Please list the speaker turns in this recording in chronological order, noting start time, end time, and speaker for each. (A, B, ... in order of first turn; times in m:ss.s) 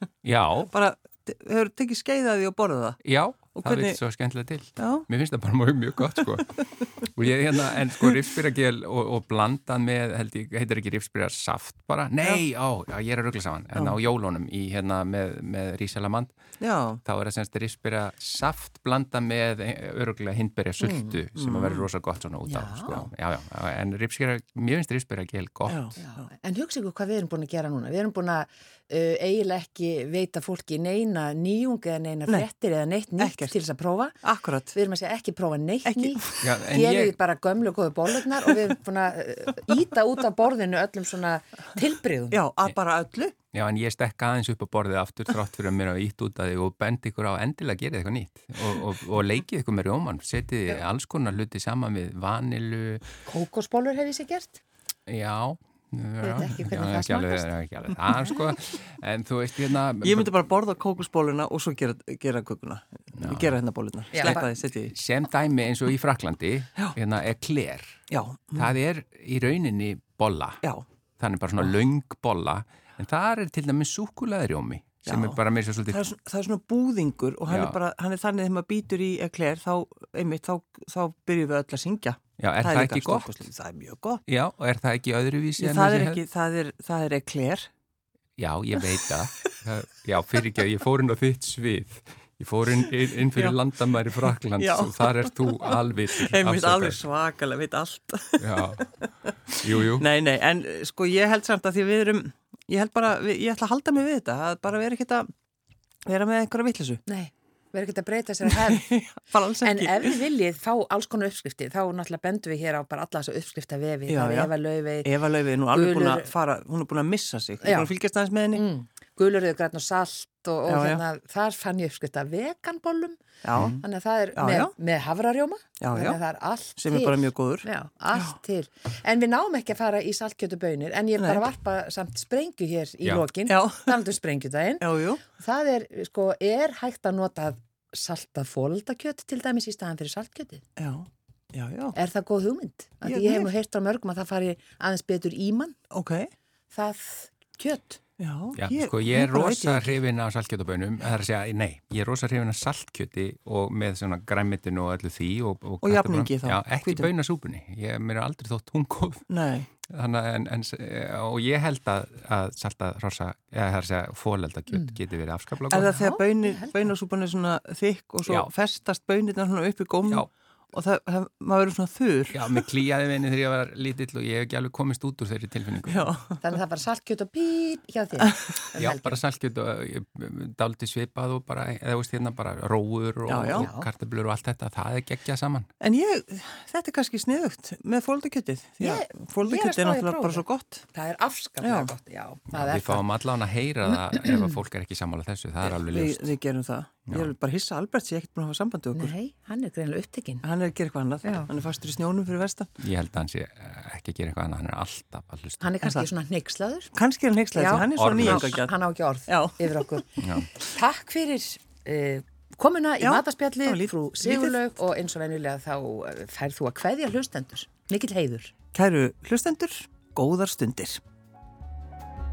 0:00.2-0:00.7 A
0:00.7-0:03.0 B
0:03.0-0:16.3 A
0:03.5-0:04.0 B
0:04.8-0:05.0 B
0:16.6-0:17.0 B
0:17.0-0:25.8 A
0:20.8-0:21.2 C
0:21.3-0:21.9 B
0:22.5-0:22.9 C
0:25.7-0:26.2 B
0:26.0-0:34.2 C
0:33.2-0:33.6 B
0:34.2-0:34.8 B
0:34.7-0:42.4 C
0:35.8-0:36.5 B
0:36.4-0:37.2 A
0:42.3-0:43.3 B
0:43.5-0:53.0 A
0:53.2-0:54.6 C
0:55.1-1:00.3 A
0:56.2-0:57.5 C
1:00.0-1:04.9 B
1:03.1-1:03.6 A
1:04.1-1:04.5 C
1:04.9-1:08.0 A
1:08.1-1:08.7 B
1:08.6-1:10.6 A
1:11.2-1:16.0 A
1:15.1-1:24.2 B
1:17.5-1:17.8 A
1:22.4-1:23.3 A
1:24.2-1:26.2 A
1:25.6-1:27.7 B
1:28.4-1:37.0 A
1:33.0-1:33.6 B
1:34.2-1:45.3 B
1:38.4-1:38.8 A
1:39.5-1:40.0 A
1:46.0-1:47.0 B
1:47.0-1:49.0 C
1:48.4-1:50.2 B
1:49.6-1:55.1 C
1:54.1-1:58.6 B
1:55.7-1:56.3 C
1:57.6-1:57.9 C
1:58.5-2:03.2 C
2:00.7-2:01.0 B
2:03.4-2:03.8 B
2:03.5-2:03.8 A
2:03.8-2:20.6 C
2:04.3-2:04.7 B
2:05.8-2:06.2 B
2:06.8-2:08.3 B
2:11.2-2:11.4 B
2:13.5-2:14.0 B
2:14.8-2:15.2 B
2:20.8-2:21.9 B
2:21.9-2:25.8 C
2:23.0-2:23.5 B
2:25.9-2:26.3 B
2:26.7-2:28.0 C
2:28.2-2:30.0 B
2:28.5-2:39.3 A
2:35.8-2:37.1 B
2:39.3-2:39.7 B
2:39.9-2:45.9 A
2:44.7-2:45.0 C
2:45.7-2:52.6 B
2:45.8-2:46.7 C
2:52.3-2:56.1 A
2:55.9-2:56.4 B
2:56.4-2:59.2 C
2:58.2-2:58.6 B
2:58.8-3:05.7 A
3:03.3-3:03.7 B
3:03.5-3:03.9 C
3:05.8-3:10.8 B
3:08.8-3:13.0 C
3:11.6-3:11.9 B
3:12.5-3:16.3 A
3:13.9-3:14.6 C
3:15.6-3:19.1 B
3:17.1-3:17.3 A
3:18.9-3:20.4 C
3:20.4-3:22.7 B
3:22.8-3:25.6 A
3:25.6-3:26.9 C
3:25.8-3:26.1 B
3:26.9-3:28.7 B
3:27.5-3:30.1 C
3:27.9-3:28.6 A
3:29.3-3:29.9 B
3:30.2-3:30.5 A
3:30.6-3:38.5 C
3:33.0-3:34.6 B
3:38.7-3:41.0 B